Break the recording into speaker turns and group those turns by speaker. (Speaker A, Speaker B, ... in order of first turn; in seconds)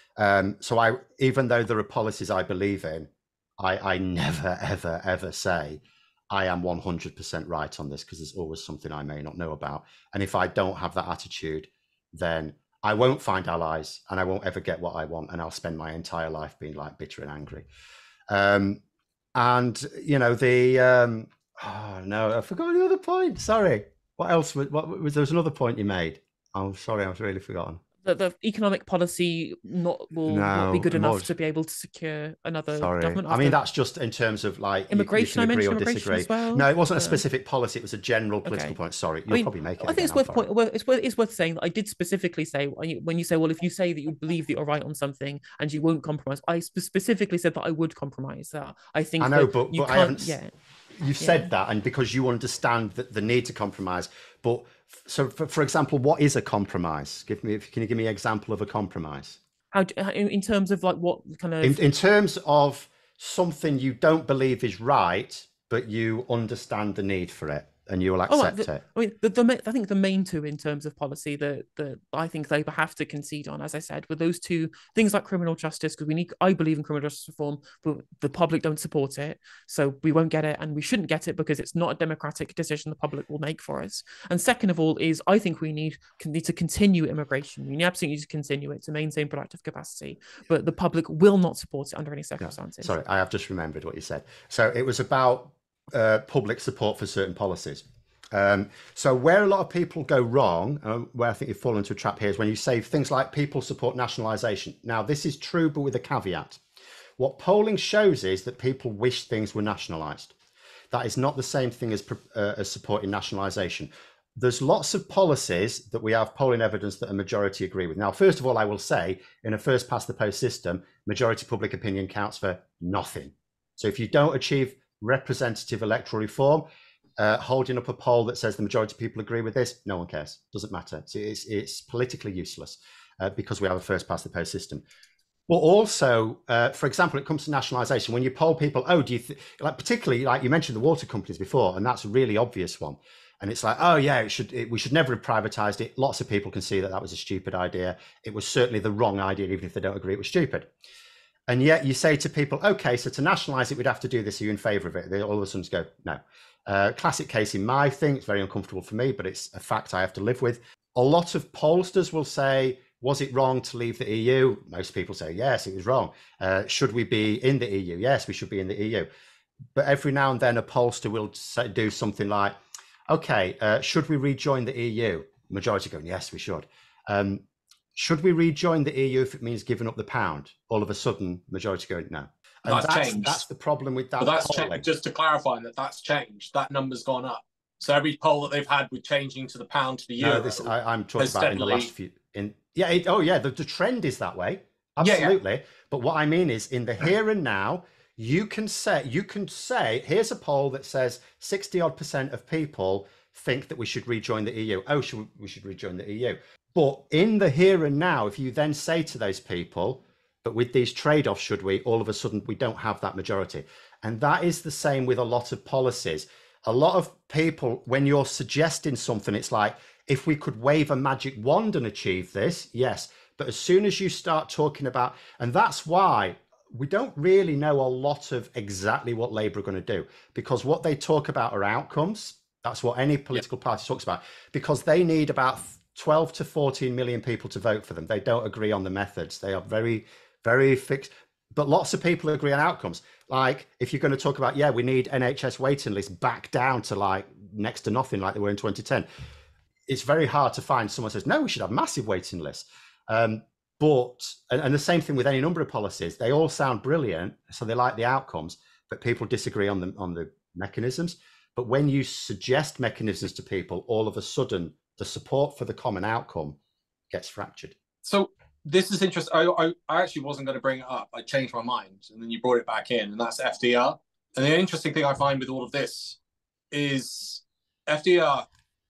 Speaker A: 0.2-17.7, 18.3-18.8, 19.3-27.8, 30.2-31.3, 32.7-40.5, 49.2-50.4, 51.0-59.4, 61.6-68.8, 92.4-106.6, 107.2-110.3, 110.9-134.8, 135.5-150.7, 151.5-169.1, 169.7-172.6, 173.1-177.4, 177.9-184.8, 190.2-249.1, 249.9-266.6, 267.1-267.7
Speaker B: 28.0-33.6, 34.9-37.2, 38.5-50.5, 51.2-51.5, 59.7-61.8, 68.3-93.0
Speaker C: 182.7-183.4, 184.2-191.9, 195.0-195.4, 268.0-276.2, 276.7-278.4